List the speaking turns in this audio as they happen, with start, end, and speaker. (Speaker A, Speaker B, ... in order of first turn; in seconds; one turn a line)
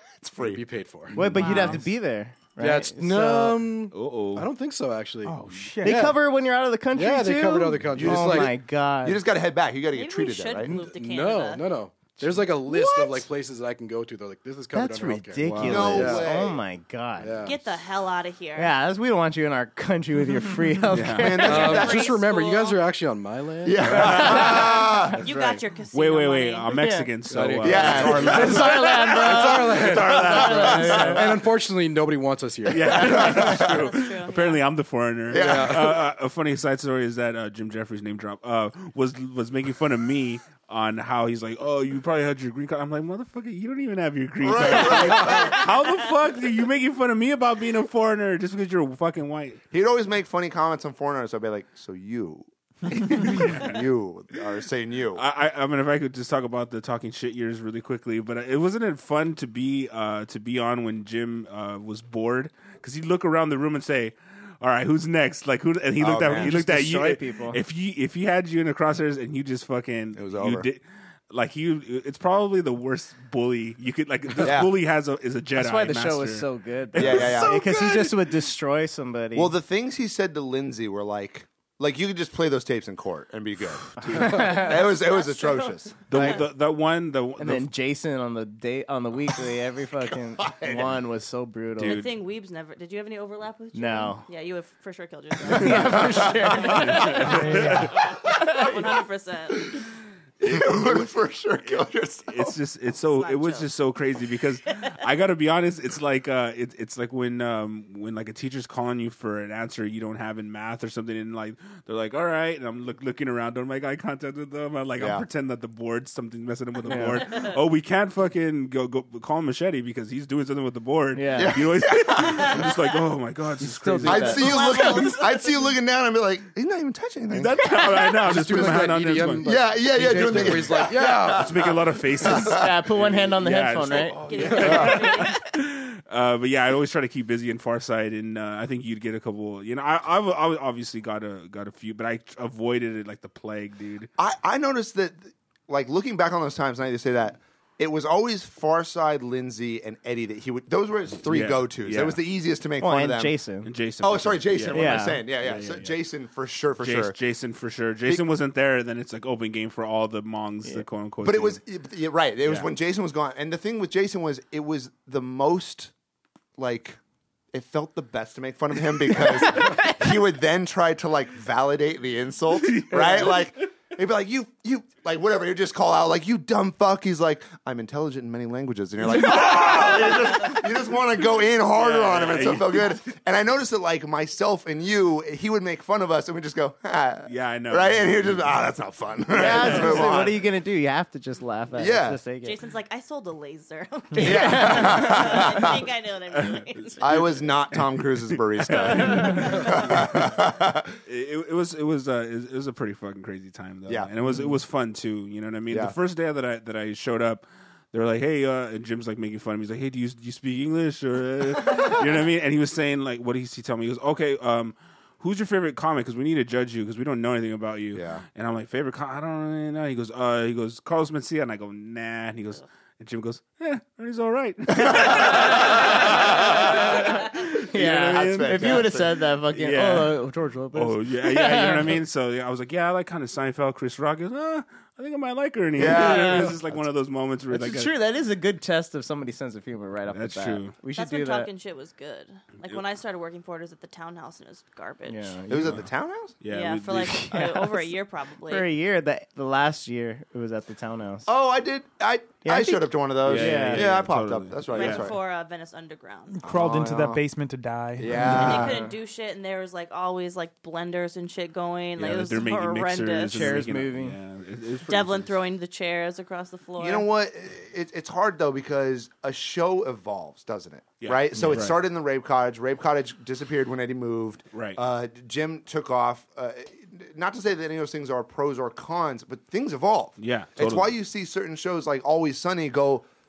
Speaker A: 0.2-0.6
Speaker B: 0.4-1.9
Speaker C: 1.1-3.6
Speaker D: 1.4-1.8
Speaker B: 2.6-6.2
Speaker E: 3.9-4.5
Speaker F: 5.2-6.1
Speaker C: 5.8-9.2
Speaker B: 6.9-8.5
Speaker A: 7.9-10.8
Speaker D: 9.9-11.6
Speaker B: 10.7-16.3
Speaker C: 14.7-17.4
Speaker E: 15.4-16.1
Speaker A: 15.7-16.6
Speaker B: 17.2-17.6
Speaker D: 17.4-18.7
Speaker C: 18.6-21.8
Speaker E: 20.9-21.6
Speaker A: 21.2-22.1
Speaker B: 21.4-24.7
Speaker D: 21.6-22.8
Speaker A: 23.6-25.2
Speaker E: 23.8-24.6
Speaker D: 25.2-26.7
Speaker E: 25.2-31.2
Speaker C: 26.7-27.1
Speaker B: 27.3-33.4
Speaker A: 27.6-28.8
Speaker C: 27.6-31.2
Speaker A: 29.9-31.2
Speaker E: 32.7-49.6
Speaker A: 32.9-33.9
Speaker D: 33.1-34.6
Speaker A: 35.3-36.0
Speaker B: 35.3-35.9
Speaker A: 44.4-45.7
Speaker A: 49.7-55.2
Speaker E: 53.0-53.9
Speaker E: 55.1-78.0
Speaker A: 66.0-66.5
Speaker C: 66.3-67.6
Speaker A: 70.2-70.7
Speaker A: 74.4-74.7
Speaker C: 75.6-79.5
Speaker A: 77.0-77.6
Speaker A: 79.3-86.0
Speaker E: 84.0-84.5
Speaker C: 84.0-84.7
Speaker D: 84.5-86.3
Speaker E: 86.1-87.7
Speaker C: 87.4-92.0
Speaker A: 90.0-91.0
Speaker E: 91.8-92.2
Speaker D: 91.8-99.7
Speaker C: 93.7-94.2
Speaker C: 95.5-97.8
Speaker A: 95.6-96.8
Speaker E: 95.6-97.9
Speaker F: 97.5-97.9
Speaker A: 98.2-98.7
Speaker A: 100.4-102.6
Speaker E: 100.4-101.0
Speaker E: 101.7-124.5
Speaker D: 103.1-103.7
Speaker A: 115.0-115.3
Speaker C: 116.8-117.2
Speaker C: 121.2-121.6
Speaker A: 121.3-122.7
Speaker C: 123.6-124.8
Speaker A: 124.0-128.9
Speaker D: 124.4-125.5
Speaker E: 127.3-129.4
Speaker B: 128.2-131.6
Speaker A: 129.4-132.7
Speaker E: 130.3-144.1
Speaker C: 132.3-134.2
Speaker D: 134.2-135.4
Speaker B: 134.3-134.8
Speaker A: 144.2-153.3
Speaker E: 151.2-152.2
Speaker C: 152.8-153.7
Speaker E: 153.6-155.9
Speaker A: 154.0-157.2
Speaker C: 154.7-155.2
Speaker E: 156.8-161.6
Speaker A: 161.2-165.9
Speaker A: 166.6-167.0
Speaker A: 167.5-190.4
Speaker E: 172.6-173.5
Speaker E: 179.4-180.0
Speaker E: 181.7-183.0
Speaker E: 187.3-188.5
Speaker C: 189.3-192.6
Speaker E: 189.4-190.2
Speaker A: 191.8-192.2
Speaker D: 192.4-197.0
Speaker C: 194.2-195.3
Speaker A: 194.2-195.8
Speaker E: 196.3-200.3
Speaker A: 197.0-200.9
Speaker D: 199.2-199.7
Speaker E: 201.1-228.9
Speaker A: 205.7-206.0
Speaker A: 217.9-218.2
Speaker A: 224.7-229.2
Speaker C: 227.6-232.0
Speaker E: 229.5-230.2
Speaker E: 230.7-237.9
Speaker A: 235.8-236.6
Speaker C: 235.8-236.6
Speaker C: 237.5-241.5
Speaker E: 240.1-240.8
Speaker D: 241.0-245.3
Speaker C: 245.1-245.8
Speaker A: 245.5-246.4
Speaker E: 246.4-247.4
Speaker D: 246.5-248.7
Speaker C: 247.0-247.9
Speaker C: 248.5-251.3
Speaker A: 251.3-255.2
Speaker C: 252.4-253.9
Speaker E: 253.2-255.1
Speaker D: 254.7-256.4
Speaker F: 256.3-258.4
Speaker A: 256.4-257.2
Speaker A: 258.0-258.8
Speaker C: 258.1-258.9
Speaker D: 258.3-263.6
Speaker E: 262.0-265.4
Speaker C: 263.3-264.2
Speaker D: 264.9-267.1
Speaker A: 266.8-283.1
Speaker E: 271.0-271.8
Speaker C: 271.4-271.7
Speaker E: 274.5-274.8
Speaker E: 280.2-280.9